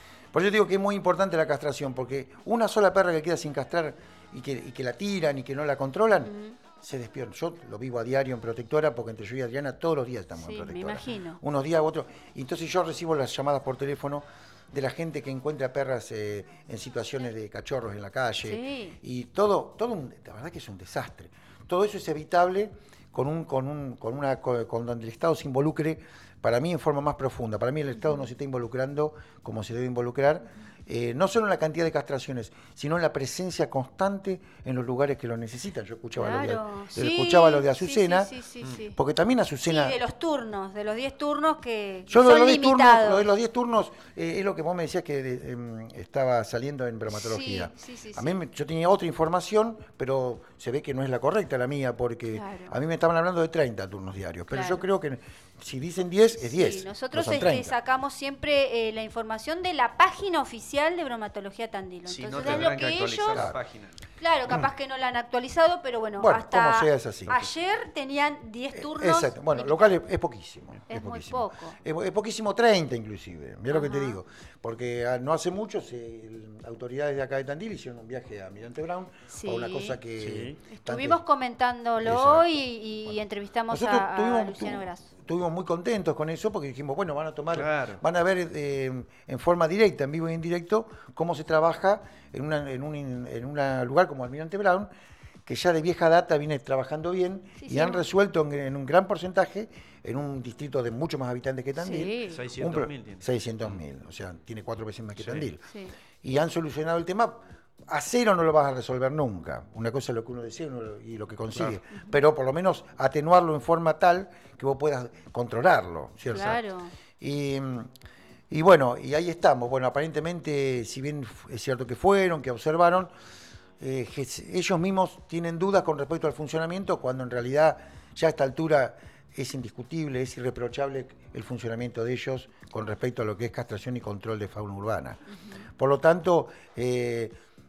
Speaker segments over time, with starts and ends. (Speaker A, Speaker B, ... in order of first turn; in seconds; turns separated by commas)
Speaker A: 0.3-38.3, Speaker B: 6.2-6.6, Speaker B: 10.3-11.4, Speaker B: 18.4-19.0, Speaker B: 27.9-28.3, Speaker B: 36.1-39.0, Speaker A: 39.0-40.0, Speaker B: 39.6-43.2, Speaker A: 42.1-57.7, Speaker B: 47.1-48.4, Speaker B: 52.3-52.7, Speaker B: 54.5-54.8, Speaker B: 56.4-63.4, Speaker C: 62.0-64.0, Speaker A: 62.4-62.8, Speaker B: 64.2-69.9, Speaker A: 66.2-67.5, Speaker A: 68.7-81.2, Speaker B: 70.9-71.8, Speaker B: 73.7-74.2, Speaker B: 79.3-80.0, Speaker C: 80.2-80.6, Speaker B: 80.7-85.1, Speaker A: 82.0-82.5, Speaker A: 83.7-94.9, Speaker C: 87.5-88.0, Speaker A: 95.5-105.6, Speaker B: 97.6-98.0, Speaker B: 101.8-102.4, Speaker C: 102.3-103.8, Speaker C: 105.2-105.5, Speaker B: 105.7-105.9, Speaker A: 106.2-116.6, Speaker C: 111.5-111.8, Speaker B: 116.3-116.9, Speaker A: 117.2-117.9, Speaker A: 118.5-123.1, Speaker A: 123.8-135.2, Speaker B: 135.3-135.6, Speaker A: 135.8-137.3